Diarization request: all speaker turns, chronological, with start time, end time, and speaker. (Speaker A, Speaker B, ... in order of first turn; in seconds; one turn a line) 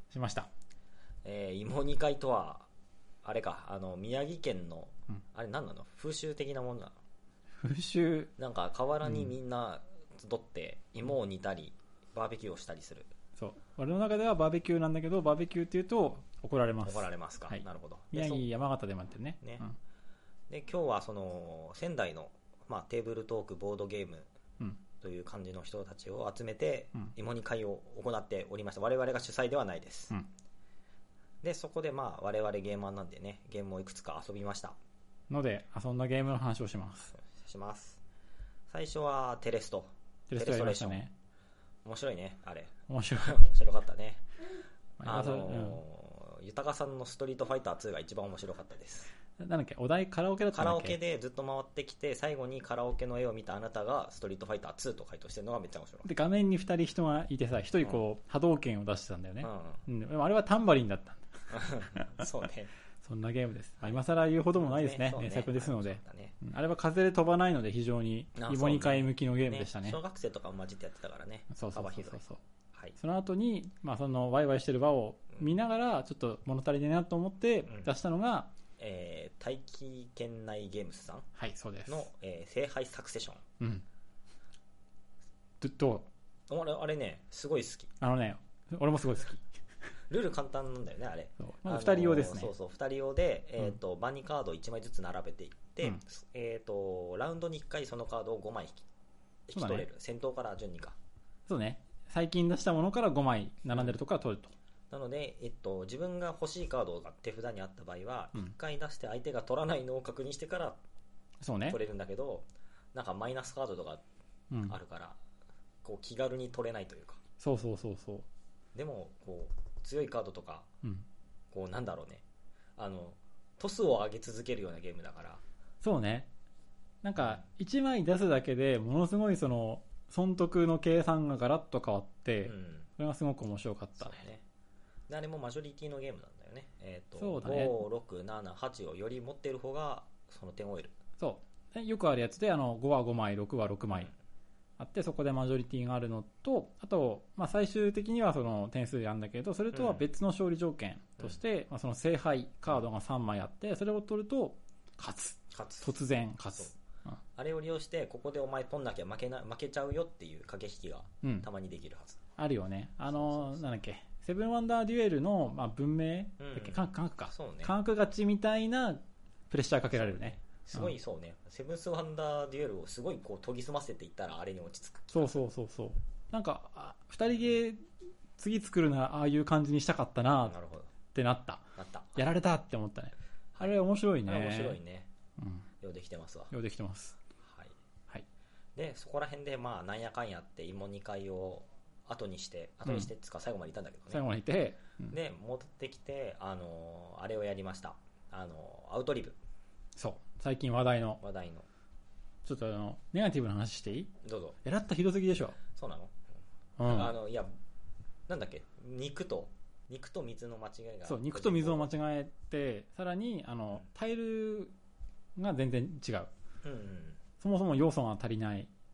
Speaker A: 0.1-0.5
Speaker B: 1.2-2.7
Speaker B: 3.2-7.0
Speaker A: 7.6-8.3
Speaker B: 8.4-13.1
Speaker A: 9.1-9.3
Speaker A: 13.4-19.8
Speaker B: 16.8-18.5
Speaker B: 20.5-24.3
Speaker B: 25.0-30.1
Speaker B: 31.4-34.8
Speaker A: 35.3-37.1
Speaker B: 37.1-38.0
Speaker B: 38.7-41.0
Speaker A: 40.3-41.1
Speaker B: 41.9-44.3
Speaker A: 42.9-43.4
Speaker A: 45.0-45.8
Speaker B: 45.0-49.1
Speaker A: 49.4-51.0
Speaker B: 50.5-56.1
Speaker A: 56.0-62.3
Speaker B: 59.4-59.9
Speaker B: 61.5-62.7
Speaker A: 63.0-70.0
Speaker B: 64.5-66.3
Speaker B: 68.4-72.2
Speaker A: 71.5-72.4
Speaker A: 73.0-78.5
Speaker B: 78.8-81.3
Speaker A: 81.4-82.1
Speaker B: 81.9-83.4
Speaker A: 83.6-83.8
Speaker A: 85.6-86.1
Speaker B: 86.5-87.9
Speaker A: 88.0-89.5
Speaker B: 90.1-98.8
Speaker A: 91.4-92.5
Speaker B: 99.5-101.0
Speaker A: 99.5-99.9
Speaker A: 101.5-104.5
Speaker B: 104.9-110.8
Speaker A: 111.4-111.8
Speaker B: 111.7-114.0
Speaker A: 114.5-114.8
Speaker B: 114.7-115.2
Speaker B: 115.8-117.2
Speaker A: 117.4-118.3
Speaker B: 118.7-120.7
Speaker B: 121.5-122.2
Speaker B: 122.8-125.4
Speaker A: 125.8-126.3
Speaker A: 127.0-134.2
Speaker B: 132.4-132.9
Speaker B: 134.0-134.4
Speaker B: 135.1-140.9
Speaker A: 137.2-137.8
Speaker A: 141.2-144.1
Speaker A: 144.8-157.2
Speaker B: 149.7-150.1
Speaker B: 155.5-155.9
Speaker B: 157.3-162.2
Speaker A: 162.4-170.9
Speaker B: 163.1-163.8
Speaker B: 166.4-167.8
Speaker B: 169.9-175.4
Speaker A: 175.1-177.9
Speaker A: 178.4-180.6
Speaker B: 180.5-180.9
Speaker A: 181.1-184.8
Speaker B: 181.8-182.2
Speaker B: 184.2-185.1
Speaker A: 185.4-185.7
Speaker B: 185.8-186.5
Speaker A: 186.5-187.2
Speaker B: 187.4-187.8
Speaker B: 188.8-194.2
Speaker A: 194.1-195.2
Speaker B: 195.1-199.4
Speaker A: 200.0-201.2
Speaker B: 201.2-201.7
Speaker A: 202.4-204.1
Speaker B: 204.2-204.6
Speaker A: 204.6-205.6
Speaker B: 205.7-206.2
Speaker A: 206.8-207.1
Speaker B: 206.8-207.5
Speaker B: 208.3-211.9
Speaker A: 211.1-214.7
Speaker A: 215.4-216.3
Speaker B: 216.6-217.2
Speaker A: 217.4-218.7